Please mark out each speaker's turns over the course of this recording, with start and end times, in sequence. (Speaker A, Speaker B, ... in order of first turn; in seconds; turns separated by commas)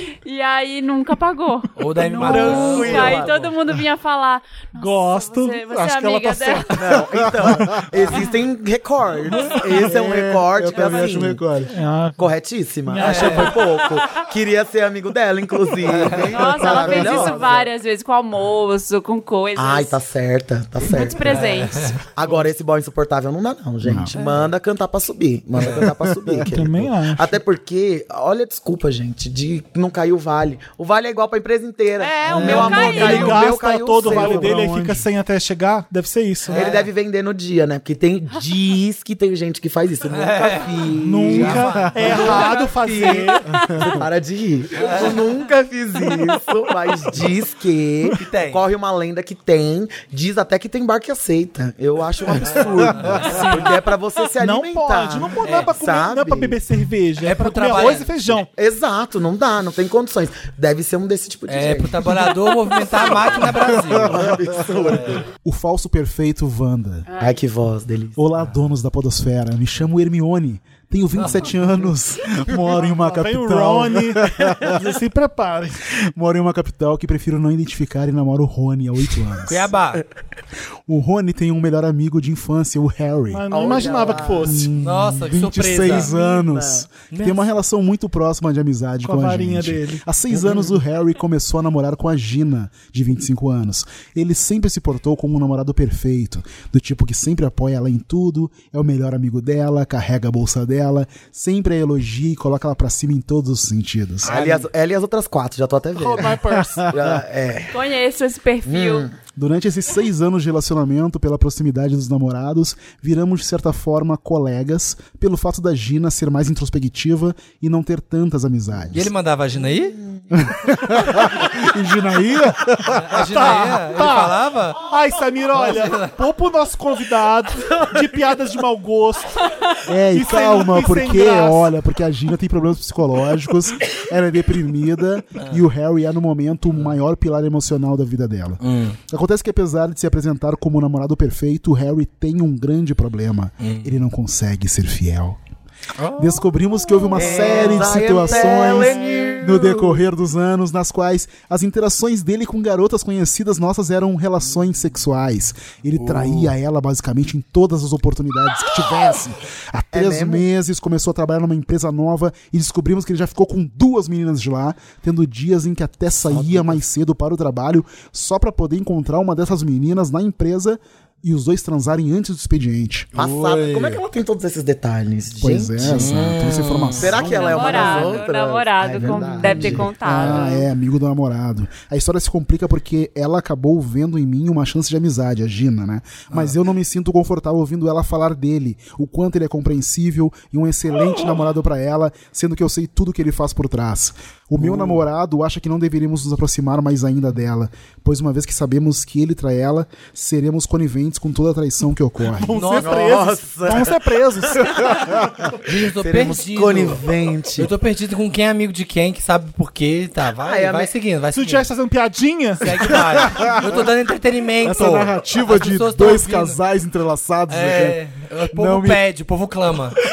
Speaker A: 0.2-6.8, Speaker B: 1.8-3.4, Speaker C: 2.2-3.4, Speaker D: 4.7-6.8, Speaker C: 6.7-11.4, Speaker E: 7.1-8.0, Speaker E: 9.7-11.7, Speaker D: 11.7-12.3, Speaker C: 12.2-17.7, Speaker D: 12.8-13.7, Speaker B: 13.0-13.5, Speaker B: 15.8-16.6, Speaker E: 16.0-17.4, Speaker A: 16.3-19.9, Speaker C: 19.6-21.5, Speaker A: 20.8-22.0, Speaker B: 21.2-22.0, Speaker C: 22.1-34.5, Speaker E: 23.8-24.1, Speaker E: 25.6-26.4, Speaker D: 26.5-27.4, Speaker A: 32.0-33.4, Speaker E: 32.3-33.4, Speaker D: 32.4-36.6, Speaker E: 34.0-35.1, Speaker B: 36.5-36.9, Speaker C: 36.5-56.6, Speaker B: 40.1-42.5, Speaker E: 41.0-42.3, Speaker D: 41.0-43.7, Speaker E: 43.6-44.0, Speaker B: 44.8-45.3, Speaker B: 48.1-48.6, Speaker B: 52.4-53.5, Speaker D: 53.3-53.8, Speaker D: 54.4-58.5, Speaker B: 55.4-55.7, Speaker B: 57.2-58.4, Speaker C: 58.5-62.3, Speaker B: 61.5-64.3, Speaker E: 63.5-64.7, Speaker C: 64.0-65.2, Speaker B: 64.8-65.2, Speaker E: 65.3-67.1, Speaker A: 67.1-67.4, Speaker C: 67.2-68.2, Speaker E: 68.2-74.9, Speaker B: 71.2-71.9, Speaker D: 72.8-75.9, Speaker E: 76.0-79.7, Speaker B: 79.5-80.0, Speaker E: 80.9-104.6, Speaker D: 83.3-84.7, Speaker C: 83.5-84.6, Speaker B: 84.8-86.1, Speaker C: 85.8-86.8, Speaker B: 87.1-87.5, Speaker D: 89.0-90.0, Speaker C: 90.3-90.7, Speaker C: 104.2-107.7, Speaker B: 104.3-104.6, Speaker D: 106.0-106.9, Speaker E: 106.4-107.2, Speaker A: 107.7-109.1, Speaker C: 108.6-109.1, Speaker E: 109.3-119.1, Speaker B: 118.9-120.0, Speaker E: 120.3-123.5, Speaker B: 122.9-124.8, Speaker D: 123.3-129.4, Speaker B: 125.5-126.2, Speaker E: 129.8-145.4, Speaker D: 130.1-131.7, Speaker B: 138.6-139.0, Speaker B: 143.6-144.0, Speaker B: 146.0-149.7, Speaker E: 146.1-173.9, Speaker C: 147.2-149.6, Speaker B: 156.0-156.5, Speaker C: 159.9-160.4, Speaker C: 166.3-166.8, Speaker C: 173.1-176.1, Speaker B: 173.2-173.6, Speaker E: 175.3-178.1, Speaker B: 175.9-177.2, Speaker C: 177.0-179.9, Speaker A: 177.2-180.6, Speaker E: 179.0-202.6, Speaker B: 194.6-195.0, Speaker D: 202.3-205.0, Speaker B: 202.5-203.2, Speaker C: 202.8-205.1, Speaker B: 205.6-211.7, Speaker C: 205.7-207.7, Speaker C: 210.4-210.9, Speaker D: 211.3-213.5, Speaker B: 212.6-216.6, Speaker E: 213.2-213.5, Speaker E: 214.6-218.0, Speaker B: 217.5-220.0, Speaker E: 218.5-219.1